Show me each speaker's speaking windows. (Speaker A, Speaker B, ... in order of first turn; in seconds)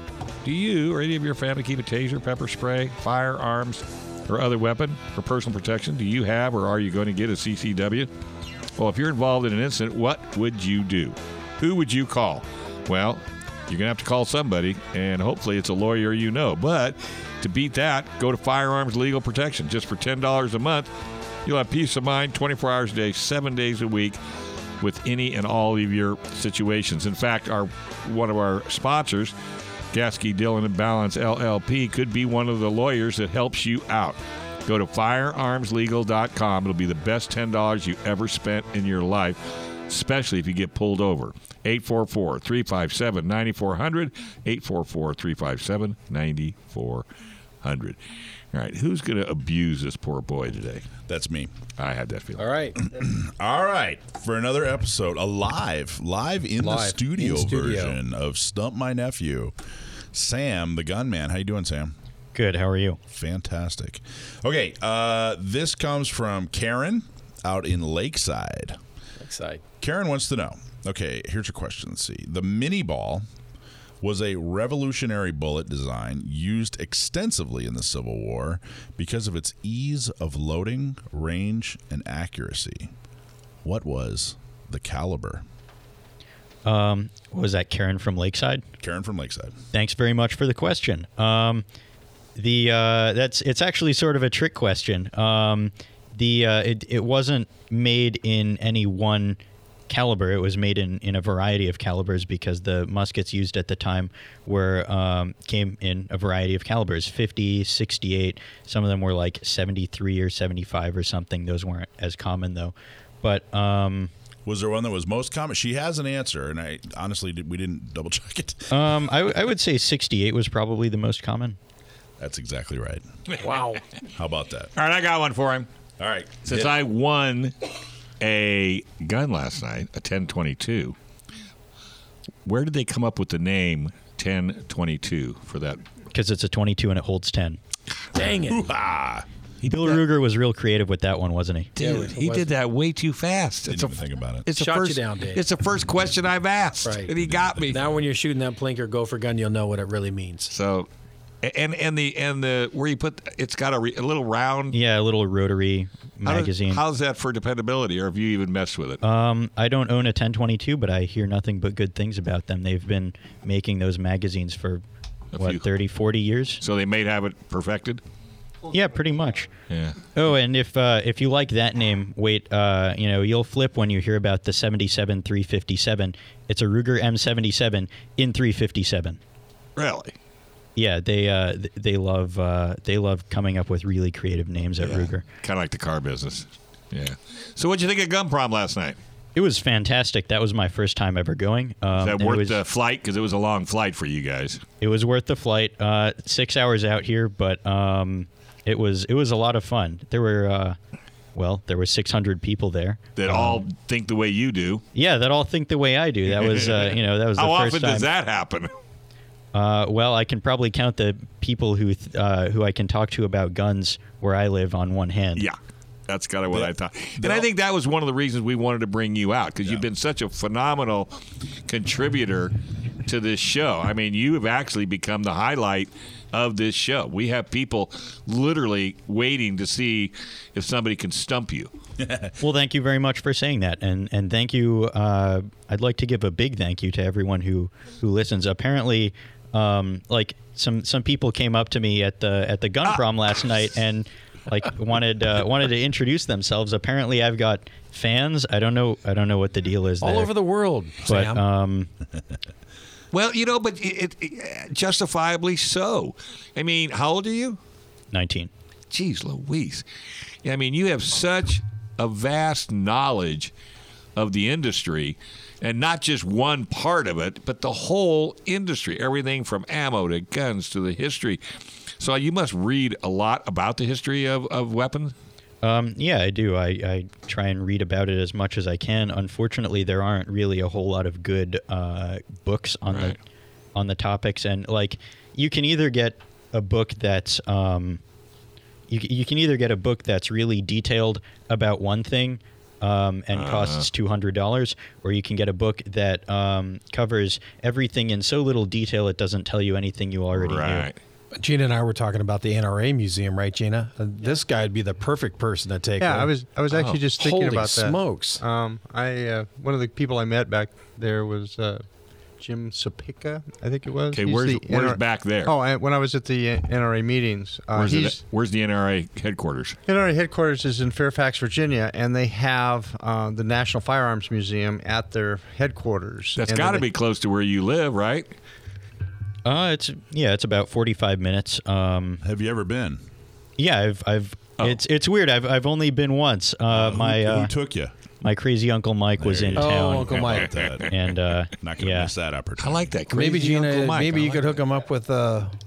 Speaker A: 0.4-8.1, 8.8-20.9, 21.4-24.2, 24.8-29.3, 29.9-47.0, 47.6-48.0, 48.5-50.9, 51.8-52.5, 124.8-125.7, 126.4-127.5, 128.2-130.9, 132.4-135.8, 141.8-147.8, 150.5-150.9, 151.4-154.8, 156.2-159.0, 165.3-165.6, 166.6-168.0, 169.7-170.0, 179.8-180.1, 184.8-189.0, 191.9-194.6, 203.2-204.8, 206.4-208.7, 216.1-221.1, 221.7-222.5, 223.1-231.7, 253.1-257.6, 258.9-259.8, 260.4-263.5, 264.1-271.4, 272.0-275.1, 293.3-293.9, 300.3-301.0, 306.7-307.0, 314.1-315.5, 317.7-319.8, 326.4-328.3, 340.3-340.9, 342.6-344.6
Speaker B: 51.1-51.5, 52.9-59.5, 60.1-61.9, 63.1-68.8, 69.8-73.2, 74.0-82.9, 83.6-85.4, 88.8-89.5, 114.5-118.9, 122.2-123.0, 124.2-124.7, 126.0-126.7, 138.4-139.2, 143.7-144.5, 147.2-148.0, 217.2-217.4, 232.0-232.3, 332.2-333.0, 336.7-337.9, 339.2-340.9, 341.6-342.9
Speaker C: 52.4-52.8, 56.6-58.0, 69.2-69.6, 123.4-123.8, 138.1-138.6, 141.8-142.5, 144.5-145.4, 146.8-147.1, 147.7-150.5, 250.0-251.4, 301.4-306.3, 307.1-308.4, 339.6-340.5, 343.1-345.5
Speaker D: 62.3-63.0, 86.6-88.6, 89.7-91.6, 92.3-114.1, 118.7-121.6, 136.1-137.6, 139.6-141.8, 154.7-156.8, 159.0-164.8, 165.4-166.6, 168.7-169.5, 170.1-179.2, 180.8-185.2, 189.3-192.6, 194.8-200.8, 201.3-203.6, 204.9-208.1, 209.5-215.4, 232.4-250.3, 251.0-251.9, 258.1-258.5, 275.6-283.2, 283.7-288.0, 288.9-300.9, 329.4-332.2, 333.6-337.5, 338.2-342.1
Speaker E: 168.7-169.3, 306.0-311.8, 312.4-318.2, 319.9-326.9